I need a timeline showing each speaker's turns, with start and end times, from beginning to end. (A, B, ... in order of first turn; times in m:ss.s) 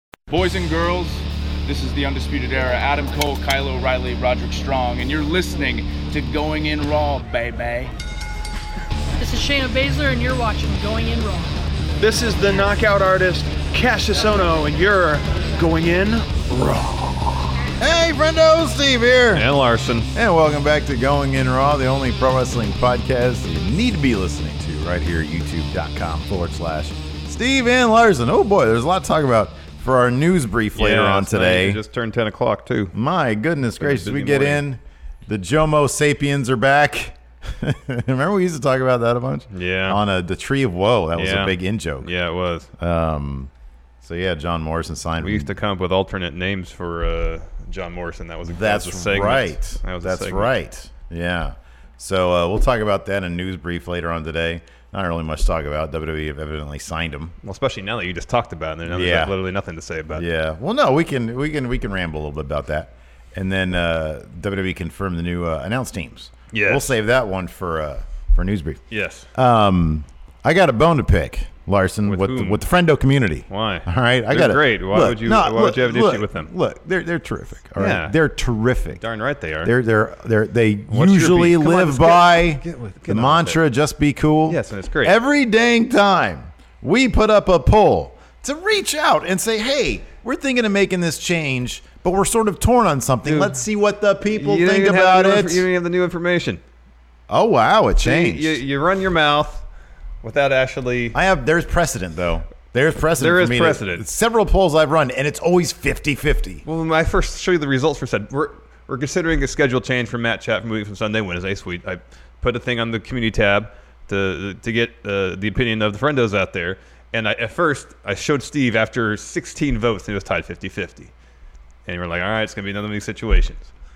0:00.3-0:01.2 A
0:01.7-0:07.9 A
0:09.2-0:11.5 B
0:12.0-0:16.4 C
0:16.5-0:19.5 D
0:19.3-0:20.1 E
0:20.1-0:31.8 D
0:30.8-0:33.0 E
0:32.9-0:42.1 D
0:33.8-0:34.6 E
0:39.5-0:40.0 E
0:41.2-0:42.7 E
0:42.8-0:43.5 D
0:44.0-0:45.5 D
0:45.2-0:50.5 E
0:48.5-0:57.3 D
0:57.4-1:00.3 E
0:58.9-0:59.4 D
1:00.1-1:08.8 D
1:06.5-1:07.0 E
1:08.9-1:09.3 E
1:09.3-1:19.0 D
1:12.1-1:12.6 E
1:13.5-1:16.5 E
1:17.8-1:18.2 E
1:19.0-1:19.7 E
1:19.6-1:35.7 D
1:20.9-1:23.6 E
1:24.5-1:25.2 E
1:33.2-1:33.6 E
1:34.3-1:36.6 E
1:37.3-1:38.6 D
1:38.0-1:39.7 E
1:40.2-1:41.2 E
1:41.1-1:46.6 D
1:43.1-1:44.0 E
1:46.7-2:01.1 E
2:01.9-2:03.7 E